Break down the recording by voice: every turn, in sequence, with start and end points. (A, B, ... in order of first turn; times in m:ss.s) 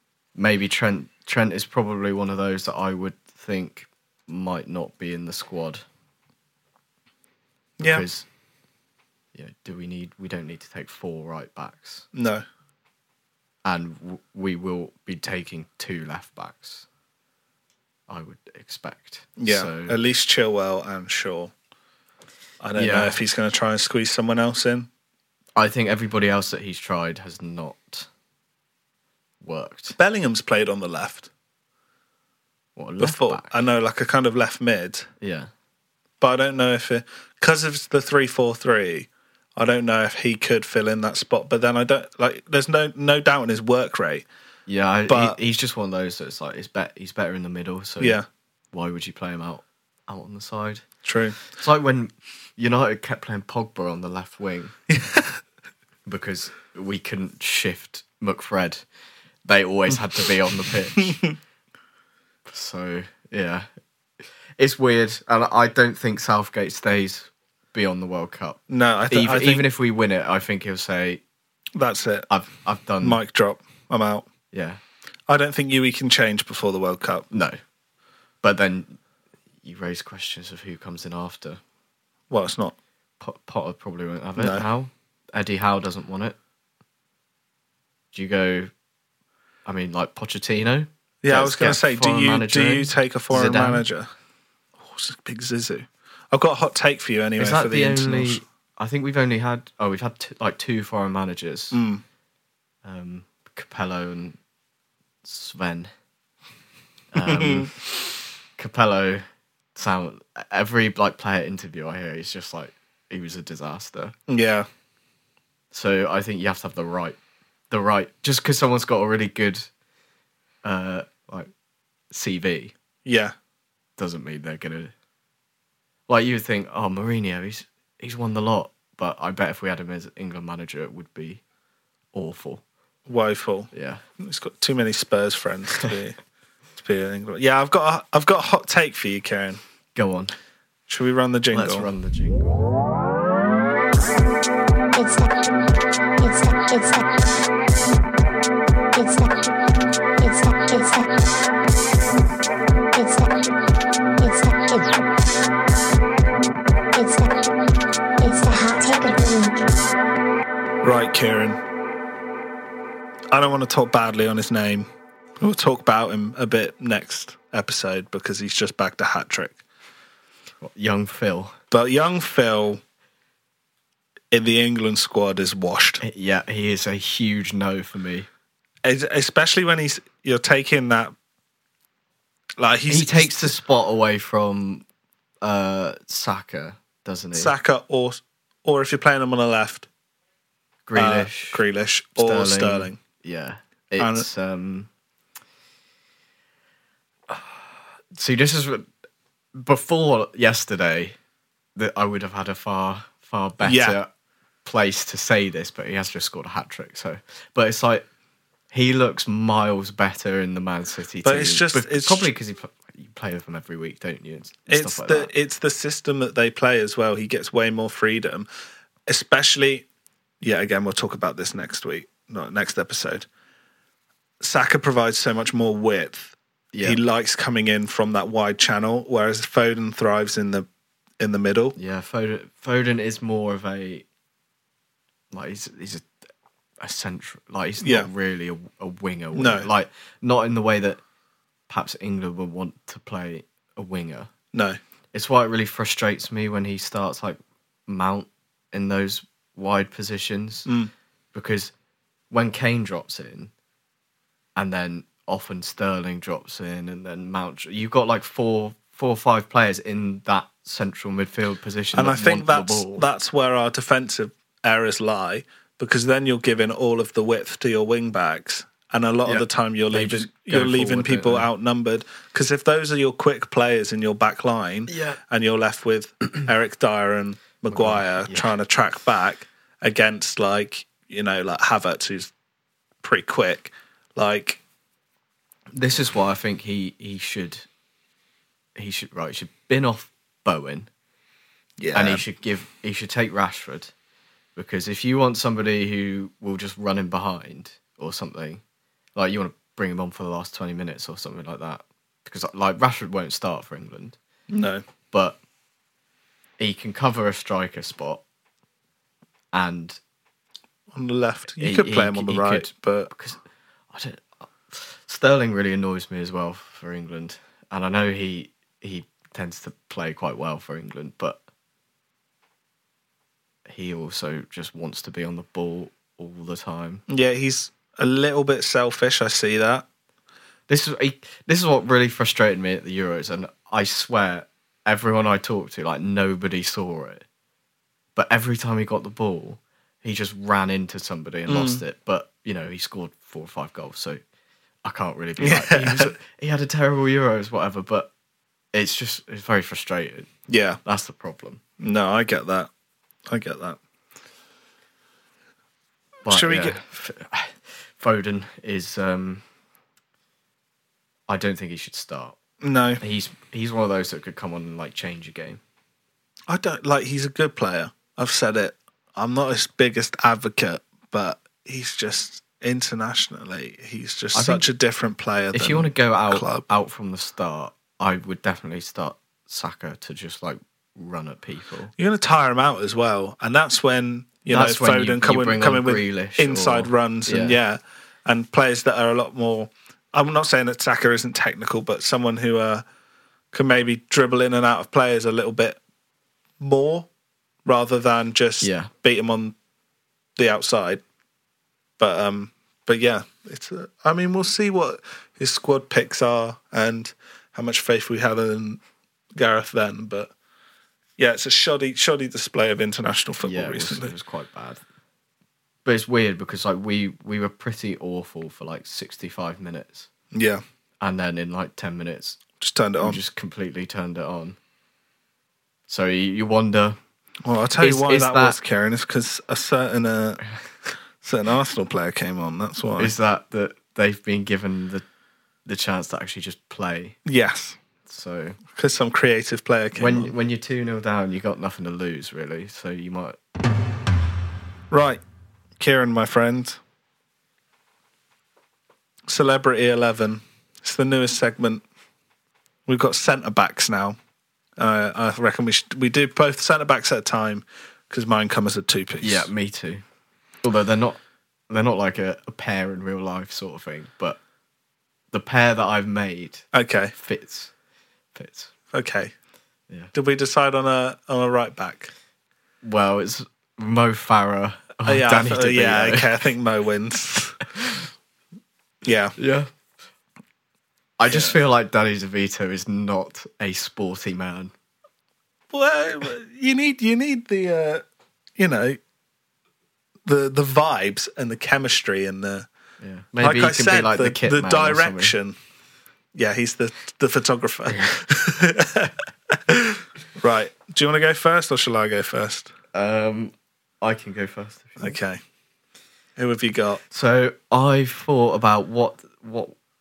0:00.4-0:05.8 A
0:07.8-0:08.0 B
0:07.8-0:08.3 A
0:09.3-0:12.1 A
0:12.1-0:12.4 B
0:13.6-0:16.8 A
0:18.1-0:20.0 A
0:19.4-0:21.5 B
0:22.6-0:24.9 B
0:22.8-0:23.2 A
0:25.6-0:28.1 A
0:29.4-0:30.0 A
0:30.0-0:31.3 B
0:32.8-0:33.5 A
0:33.0-0:35.1 B
0:35.2-0:35.5 A
0:36.2-0:44.3 B
0:44.7-0:48.2 A
0:45.1-0:45.4 B
0:48.0-0:48.3 B
0:48.7-0:50.8 A
0:51.0-0:51.4 B
0:51.5-0:54.8 A
0:54.9-0:55.4 B
0:56.1-0:58.8 A
0:59.4-1:01.2 A
1:02.5-1:03.7 A
1:04.6-1:08.6 A
1:08.7-1:09.6 B
1:09.1-1:11.2 A
1:11.8-1:12.3 B
1:12.3-1:13.2 A
1:13.0-1:14.3 B
1:14.5-1:14.8 A
1:15.3-1:17.3 B
1:17.3-1:17.6 A
1:18.4-1:19.0 A
1:19.6-1:21.6 A
1:22.3-1:22.8 B
1:23.2-1:26.4 A
1:24.4-1:24.6 B
1:28.1-1:28.7 A
1:29.6-1:33.8 A
1:31.2-1:34.1 B
1:34.8-1:38.4 B
1:37.4-1:41.8 A
1:41.7-1:42.0 B
1:42.8-1:44.4 A
1:45.2-1:45.9 A
1:47.1-1:47.8 A
1:47.2-1:47.7 B
1:48.6-1:54.2 A
1:54.3-1:54.7 B
1:55.7-1:57.2 A
1:57.7-1:59.7 A
2:00.6-2:01.5 A
2:02.1-2:02.7 A
2:03.0-2:03.4 B
2:04.0-2:04.9 A
2:06.1-2:11.4 A
2:12.1-2:12.6 A
2:13.1-2:16.2 B
2:13.7-2:14.0 A
2:16.8-2:19.6 B
2:20.0-2:20.3 A
2:20.9-2:21.9 B
2:21.5-2:22.6 A
2:24.9-2:25.5 C
2:26.2-2:27.1 C
2:28.9-2:29.5 C
2:30.2-2:31.2 C
2:32.9-2:33.5 C
2:34.2-2:35.0 C
2:36.9-2:37.6 C
2:38.2-2:39.7 C
2:40.8-2:41.6 B
2:43.3-2:44.9 B
2:45.4-2:49.6 B
2:50.6-2:51.6 A
2:51.7-2:52.8 B
2:54.3-2:56.0 B
2:56.0-2:58.3 A
2:58.8-3:01.1 B
3:02.6-3:03.6 B
3:02.9-3:04.8 A
3:05.4-3:07.5 A
3:07.3-3:09.9 B
3:10.9-3:11.6 A
3:11.0-3:13.0 B
3:12.2-3:14.9 A
3:14.0-3:14.3 B
3:18.2-3:18.9 A
3:19.6-3:21.2 A
3:21.8-3:24.1 A
3:23.6-3:24.0 B
3:24.6-3:28.0 A
3:28.7-3:35.3 A
3:31.2-3:32.3 B
3:34.7-3:38.5 B
3:39.1-3:39.9 B
3:40.4-3:43.3 B
3:44.4-3:50.7 B
3:46.7-3:47.0 A
3:51.2-3:51.8 B
3:51.8-3:54.0 A
3:55.3-3:56.1 A
3:56.8-4:01.0 A
3:57.8-3:58.1 B
3:59.3-3:59.7 B
4:01.7-4:04.3 A
4:04.5-4:04.8 B
4:05.1-4:10.7 A
4:11.3-4:11.7 A
4:12.3-4:13.5 A
4:14.6-4:23.1 A
4:21.9-4:42.3 B
4:29.2-4:31.5 A
4:34.9-4:35.2 A
4:37.7-4:38.5 A
4:43.0-4:44.6 B
4:45.7-4:47.7 A
4:48.8-4:50.9 A
4:51.8-4:52.2 B
4:51.9-4:53.9 A
4:54.6-4:58.6 A
4:59.2-5:04.2 A
5:04.5-5:04.8 B
5:05.1-5:05.4 A
5:06.6-5:08.2 A
5:09.5-5:10.0 A
5:10.9-5:13.1 B
5:11.6-5:13.4 A
5:13.9-5:21.4 A
5:23.7-5:27.0 A
5:27.1-5:29.8 B
5:30.7-5:37.2 A
5:38.2-5:44.2 A
5:41.5-5:41.8 B
5:44.8-5:48.1 A
5:45.4-5:46.1 B
5:48.7-5:50.3 A
5:50.5-5:50.8 B
5:50.8-5:51.6 A
5:51.8-5:52.7 B
5:53.3-5:53.8 B
5:56.2-5:59.4 A
5:56.3-5:56.8 B
6:01.3-6:02.4 A
6:02.6-6:03.0 B
6:03.0-6:05.6 A
6:06.5-6:16.6 B
6:14.3-6:14.6 A
6:15.5-6:21.9 A
6:22.0-6:32.8 B
6:24.5-6:27.6 A
6:33.5-6:35.8 B
6:36.6-6:37.1 B
6:37.6-6:39.6 B
6:38.6-6:38.9 A
6:40.4-6:41.0 B
6:42.0-6:48.8 B
6:49.4-6:50.3 B
6:51.2-6:54.1 B
6:53.4-6:54.8 A
6:55.8-7:00.1 A
7:00.3-7:00.6 B
7:01.0-7:02.4 A
7:02.6-7:03.2 B
7:03.0-7:04.6 A
7:05.9-7:07.0 A
7:07.4-7:10.4 B
7:07.8-7:08.6 A
7:11.2-7:13.1 B
7:13.0-7:15.0 A
7:15.7-7:17.2 A
7:17.3-7:17.8 B
7:18.0-7:18.6 A
7:18.8-7:20.3 B
7:20.0-7:23.4 A
7:24.9-7:25.2 B
7:25.8-7:26.8 B
7:29.3-7:31.8 B
7:32.9-7:34.2 B
7:34.8-7:39.5 B
7:39.2-7:40.0 A
7:40.6-7:41.2 A
7:41.7-7:44.4 A
7:45.3-7:47.7 A
7:46.7-7:47.1 B
7:48.4-7:48.7 A
7:48.9-7:49.3 B
7:50.1-7:52.1 B
7:52.8-7:56.4 A
7:55.0-7:57.6 B
7:57.8-7:58.0 A
7:59.0-7:59.4 B
7:59.4-7:59.7 A
8:01.2-8:04.7 A
8:01.3-8:01.6 B
8:05.7-8:08.0 B
8:08.6-8:09.0 B
8:10.3-8:12.7 B
8:13.0-8:15.4 A
8:13.4-8:15.6 B
8:16.4-8:22.7 B
8:22.9-8:25.2 A
8:25.0-8:25.4 B
8:26.4-8:27.0 B
8:27.1-8:29.8 A